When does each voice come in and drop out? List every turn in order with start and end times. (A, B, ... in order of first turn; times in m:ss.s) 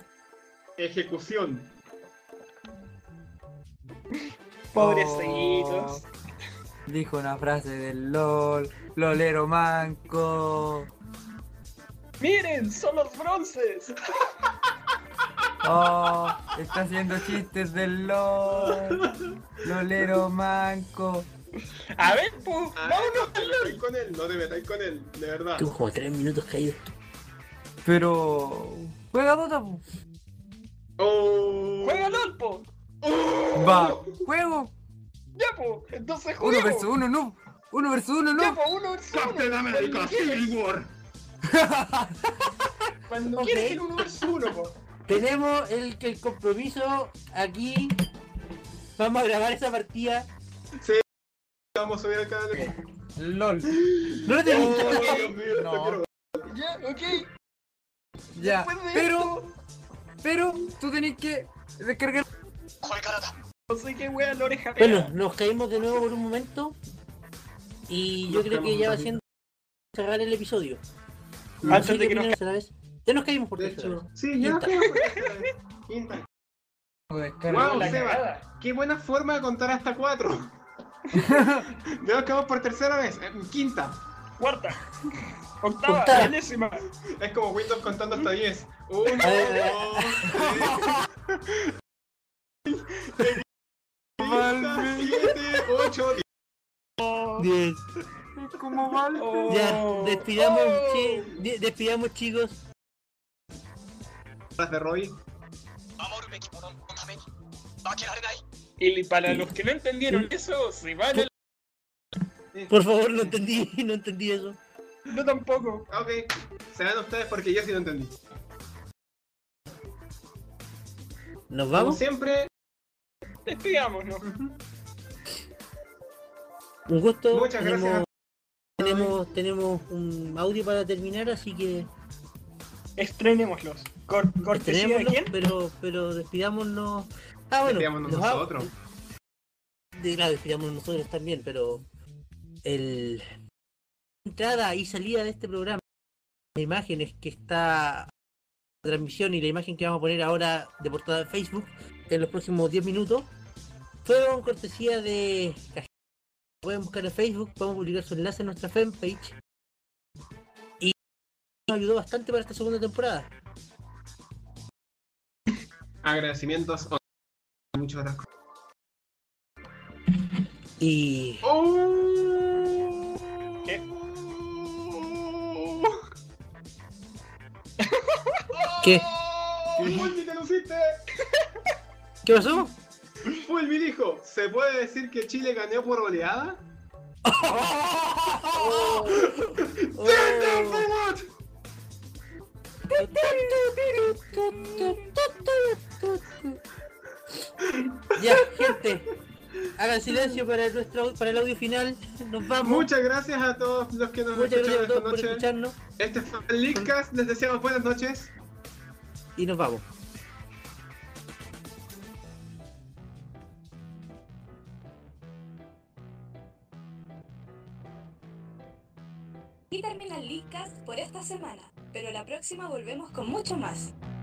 0:00.8-0:01.7 A
0:04.7-0:06.0 B
0:04.7-0:06.0 C
0:06.9-0:10.9 C
0:12.2-0:14.3 B
0:15.6-0:19.1 C
0:18.7-0:19.4 A
0:19.6-0:21.3 C
0:21.9-0:23.8 B
0:22.8-0:25.7 A
0:25.6-0:26.9 D
0:27.8-0:29.8 C
0:31.0-0:32.3 A
0:31.8-0:32.7 B
0:33.0-0:34.2 A
0:33.5-0:34.7 C
0:35.3-0:36.9 B
0:36.4-0:38.6 C
0:38.4-0:40.5 B
0:39.1-0:40.8 A
0:41.4-0:42.5 C
0:43.1-0:44.7 B
0:43.4-0:43.8 D
0:43.6-0:44.7 A
0:45.1-0:48.0 D
0:49.0-0:50.3 D
0:51.7-0:52.7 A
0:52.6-0:53.9 C
0:53.8-0:56.4 A
0:54.2-0:55.1 D
0:54.6-0:55.3 B
0:54.6-0:56.0 C
0:56.4-0:57.3 B
0:58.4-0:59.4 C
0:58.4-0:59.5 B
1:00.2-1:02.3 C
1:02.8-1:05.1 B
1:04.8-1:06.8 D
1:07.9-1:09.2 D
1:08.3-1:09.2 A
1:09.9-1:10.8 D
1:11.6-1:11.9 A
1:11.6-1:14.8 D
1:11.7-1:12.4 B
1:13.6-1:16.3 A
1:14.8-1:15.4 B
1:17.1-1:18.0 C
1:17.5-1:20.5 A
1:17.5-1:18.4 B
1:21.1-1:21.6 C
1:21.4-1:24.0 A
1:24.4-1:24.8 B
1:25.6-1:26.8 B
1:25.9-1:26.3 D
1:27.0-1:31.7 A
1:29.2-1:30.3 D
1:30.2-1:31.0 C
1:34.2-1:35.4 C
1:34.2-1:36.3 A
1:37.0-1:37.4 B
1:37.4-1:37.8 D
1:38.4-1:39.8 C
1:39.2-1:41.3 B
1:39.5-1:42.6 D
1:44.6-1:45.2 A
1:46.0-1:47.2 B
1:47.8-1:51.3 B
1:52.7-1:54.6 D
1:55.1-1:55.9 B
1:55.9-1:58.2 A
2:01.5-2:02.0 D
2:01.7-2:02.5 A
2:03.4-2:04.3 B
2:04.2-2:04.6 A
2:06.9-2:08.0 D
2:07.3-2:08.1 A
2:08.8-2:09.1 A
2:08.8-2:11.9 D
2:13.0-2:15.3 B
2:14.5-2:18.7 D
2:17.6-2:18.7 A
2:19.9-2:21.8 D
2:22.6-2:23.2 D
2:24.2-2:25.8 D
2:26.6-2:28.1 D
2:28.8-2:33.3 D
2:34.0-2:35.9 D
2:36.6-2:39.4 D
2:41.7-2:43.3 D
2:46.0-2:47.0 A
2:47.7-2:48.3 A
2:50.8-2:51.5 D
2:51.4-2:56.0 A
2:57.8-2:58.5 B
2:58.5-3:01.1 A
3:02.2-3:02.7 D
3:03.2-3:06.6 A
3:08.3-3:10.9 D
3:08.7-3:11.3 A
3:08.8-3:09.2 B
3:13.0-3:16.6 D
3:17.6-3:18.8 A
3:18.1-3:19.1 D
3:19.8-3:22.9 D
3:22.6-3:28.3 A
3:24.3-3:25.8 D
3:29.4-3:29.9 D
3:39.7-3:43.9 E